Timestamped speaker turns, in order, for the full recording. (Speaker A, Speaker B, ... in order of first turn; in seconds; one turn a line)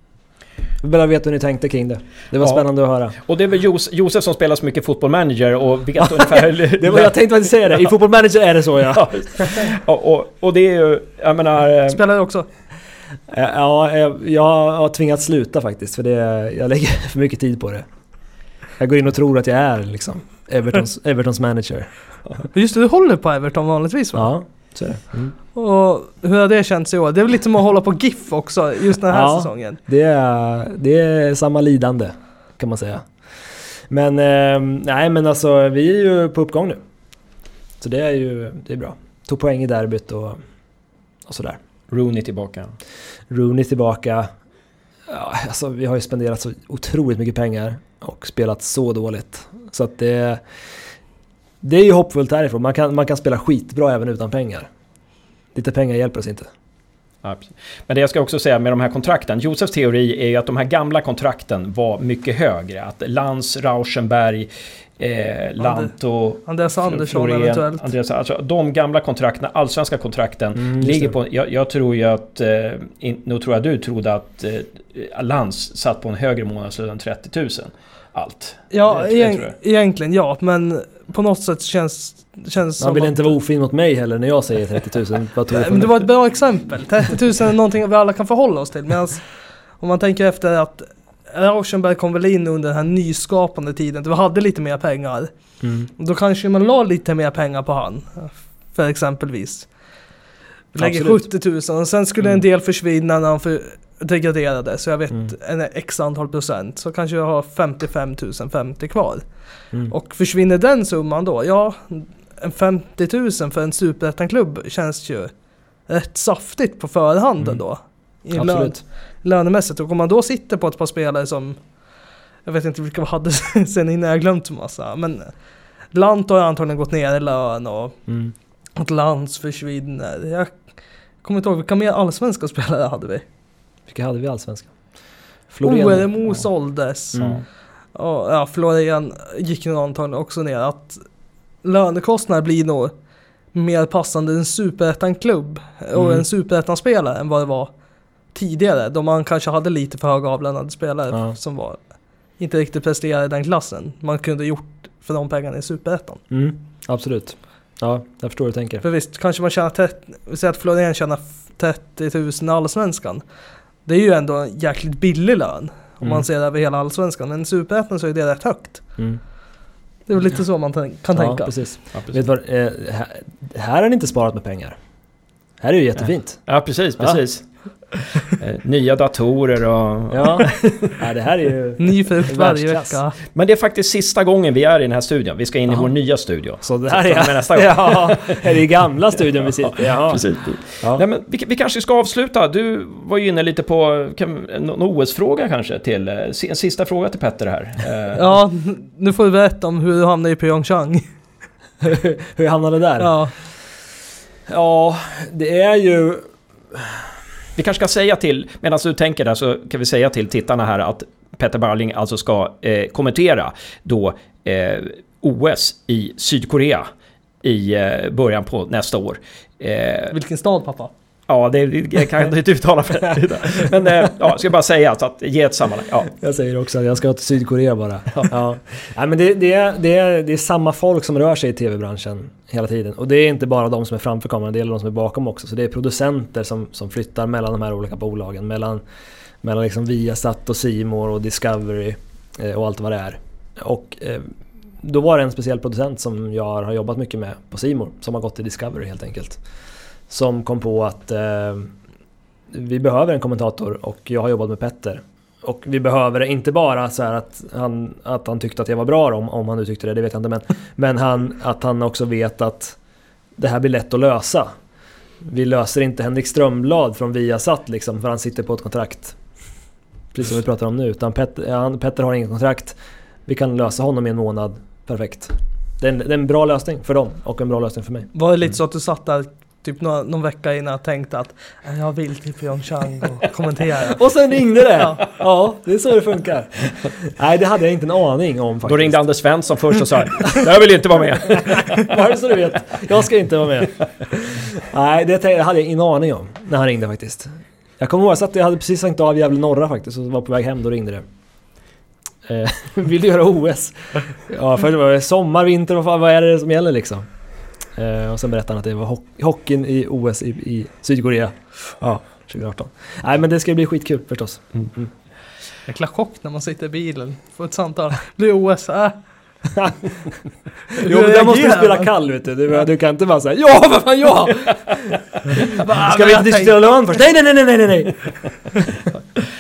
Speaker A: 0.8-3.1
Speaker B: 2.4-7.9
Speaker A: 6.8-9.7
Speaker B: 8.9-12.0
Speaker C: 11.9-12.5
Speaker A: 13.3-17.9
Speaker A: 18.8-22.4
Speaker C: 22.5-24.5
Speaker A: 24.1-25.3
Speaker C: 25.5-29.8
Speaker A: 29.1-33.2
Speaker A: 33.9-36.8
Speaker A: 37.8-40.4
Speaker A: 41.3-41.6
Speaker B: 41.9-42.8
Speaker A: 43.3-44.3
Speaker A: 45.1-50.4
Speaker A: 51.6-54.7
Speaker A: 55.5-56.5
Speaker B: 57.2-79.5
Speaker C: 65.6-65.9
Speaker C: 66.5-67.9
Speaker A: 70.6-71.1
Speaker C: 78.7-83.3
Speaker A: 82.8-86.0
Speaker C: 85.5-95.3
Speaker A: 95.6-95.9
Speaker C: 96.0-99.7
Speaker C: 100.7-115.3
Speaker A: 100.8-101.3
Speaker C: 115.9-121.7
Speaker A: 118.3-118.8
Speaker C: 122.5-125.4
Speaker C: 125.9-128.0
Speaker A: 128.1-128.3
Speaker C: 128.8-133.2
Speaker A: 133.9-134.8
Speaker A: 135.5-136.1
Speaker C: 135.6-141.0
Speaker A: 137.1-137.4
Speaker B: 137.1-137.4
Speaker C: 141.6-142.9
Speaker C: 143.5-147.7
Speaker A: 145.9-146.2
Speaker C: 148.3-151.8
Speaker C: 152.4-156.2
Speaker A: 156.3-158.8
Speaker C: 158.8-163.2
Speaker C: 163.9-169.0
Speaker C: 170.1-171.5
Speaker A: 171.2-174.8
Speaker B: 171.9-172.2
Speaker A: 175.6-176.5
Speaker B: 176.5-180.9
Speaker A: 180.1-183.0
Speaker C: 181.8-183.2
Speaker B: 183.3-188.4
Speaker A: 186.6-190.3
Speaker B: 189.4-198.2
Speaker C: 198.2-201.1
Speaker A: 201.8-203.1
Speaker C: 203.0-203.3
Speaker A: 204.5-206.9
Speaker B: 207.6-216.9
Speaker B: 217.4-220.2
Speaker C: 220.1-220.9
Speaker B: 221.3-226.1
Speaker A: 226.2-238.8
Speaker A: 239.4-244.3
Speaker A: 244.8-249.4
Speaker A: 250.1-251.7
Speaker A: 252.5-262.8
Speaker A: 263.4-264.5
Speaker A: 265.2-269.2
Speaker A: 270.1-278.1
Speaker C: 278.1-284.0
Speaker A: 283.9-289.0
Speaker C: 284.8-285.0
Speaker B: 288.6-291.9
Speaker A: 291.2-301.0
Speaker A: 302.3-307.1
Speaker A: 307.8-314.9
Speaker C: 315.7-319.0
Speaker C: 320.7-321.9
Speaker A: 320.8-328.8
Speaker C: 325.7-326.7